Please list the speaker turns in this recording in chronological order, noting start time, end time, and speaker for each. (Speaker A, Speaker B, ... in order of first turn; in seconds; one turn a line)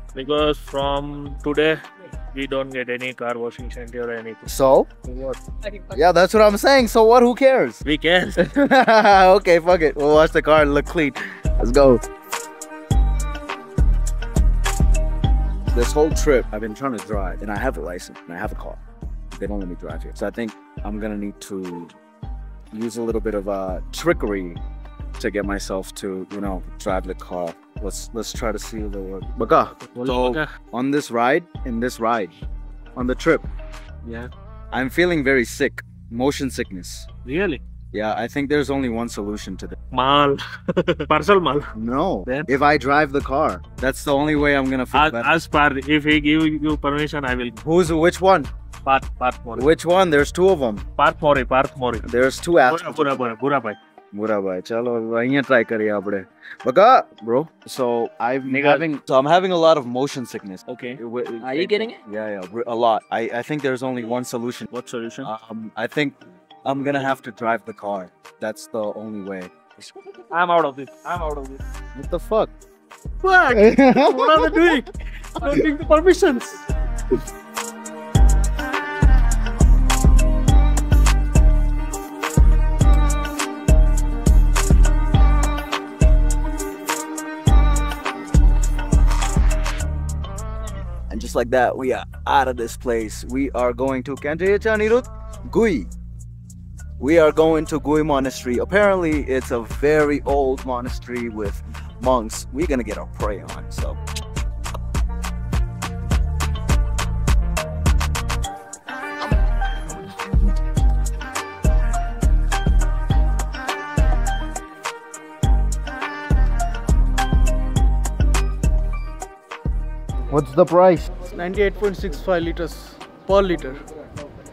Speaker A: 0.1-1.8
Speaker A: 2.3-4.5
Speaker B: 4.5-4.9
Speaker A: 5.1-5.4
Speaker B: 5.8-7.8
Speaker A: 7.8-8.4
Speaker B: 8.4-12.0
Speaker B: 15.7-18.8
Speaker B: 19.4-22.0
Speaker B: 22.7-24.6
Speaker B: 25.2-32.4
Speaker A: 29.9-30.5
Speaker B: 33.0-33.5
Speaker A: 34.0-34.3
Speaker B: 34.7-37.1
Speaker A: 37.2-37.6
Speaker B: 37.9-39.8
Speaker A: 39.9-41.7
Speaker B: 41.7-45.4
Speaker A: 42.3-42.6
Speaker A: 44.9-47.6
Speaker B: 47.6-48.5
Speaker A: 48.9-49.7
Speaker B: 49.5-50.8
Speaker A: 51.0-52.1
Speaker B: 52.0-53.1
Speaker A: 52.6-53.8
Speaker B: 54.1-64.7
Speaker A: 58.5-59.0
Speaker A: 60.7-62.0
Speaker A: 64.7-65.3
Speaker B: 65.2-69.9
Speaker A: 70.3-71.6
Speaker B: 72.0-72.5
Speaker A: 73.2-76.6
Speaker B: 73.5-74.8
Speaker B: 91.1-95.9
Speaker B: 97.0-104.0
Speaker B: 120.3-121.1
Speaker C: 121.3-123.8